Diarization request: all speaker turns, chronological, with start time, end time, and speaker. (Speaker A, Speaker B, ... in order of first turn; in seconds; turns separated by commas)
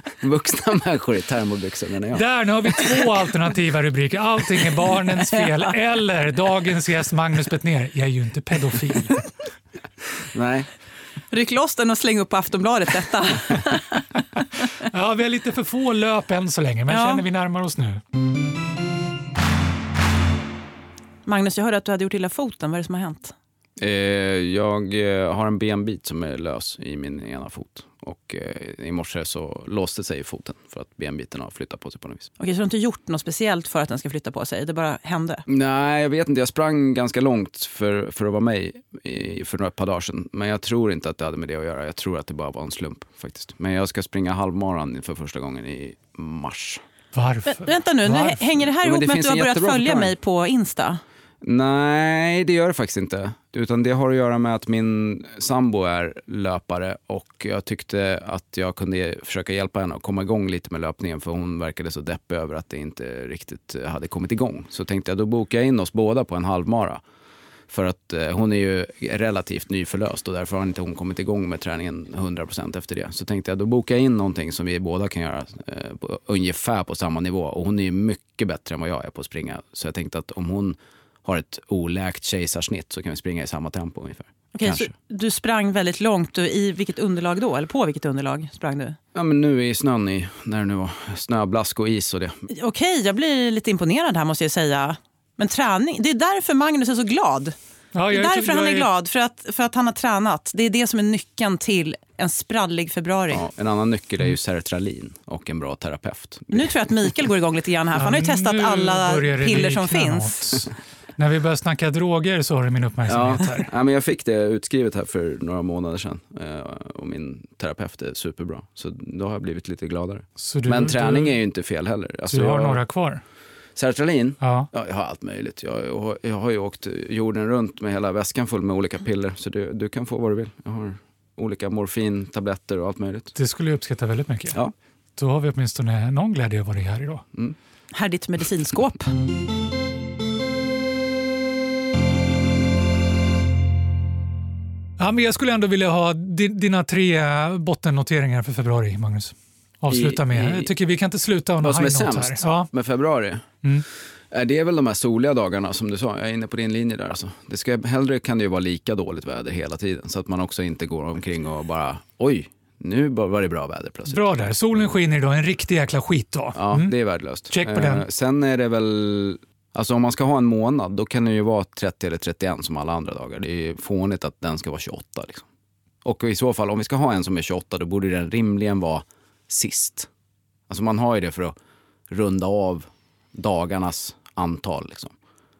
Speaker A: 0.2-2.2, Speaker B: 2.1-9.2, Speaker A: 10.3-10.7, Speaker C: 11.3-14.0, Speaker B: 14.8-18.0, Speaker C: 16.9-17.2, Speaker C: 21.2-23.3, Speaker A: 23.8-32.3, Speaker C: 32.4-35.4, Speaker A: 35.5-46.8, Speaker B: 47.1-48.4, Speaker C: 47.5-51.0, Speaker A: 48.8-50.1, Speaker A: 51.4-67.0, Speaker A: 67.7-84.9, Speaker C: 84.5-89.0, Speaker A: 89.1-92.3, Speaker C: 92.5-97.5, Speaker B: 97.9-98.9, Speaker C: 98.1-103.4, Speaker A: 103.3-106.7, Speaker C: 106.5-110.5, Speaker B: 107.9-113.7, Speaker A: 113.1-122.8, Speaker B: 120.4-121.4, Speaker B: 122.3-123.2, Speaker A: 123.8-133.3, Speaker B: 124.4-124.7, Speaker B: 133.3-134.6, Speaker B: 135.2-137.2, Speaker C: 137.9-139.1, Speaker B: 145.0-152.7, Speaker A: 149.9-150.7, Speaker A: 151.6-153.4, Speaker A: 154.3-164.8, Speaker B: 164.1-168.0, Speaker A: 166.5-175.4, Speaker A: 176.0-180.1, Speaker A: 180.7-181.5, Speaker A: 182.1-185.1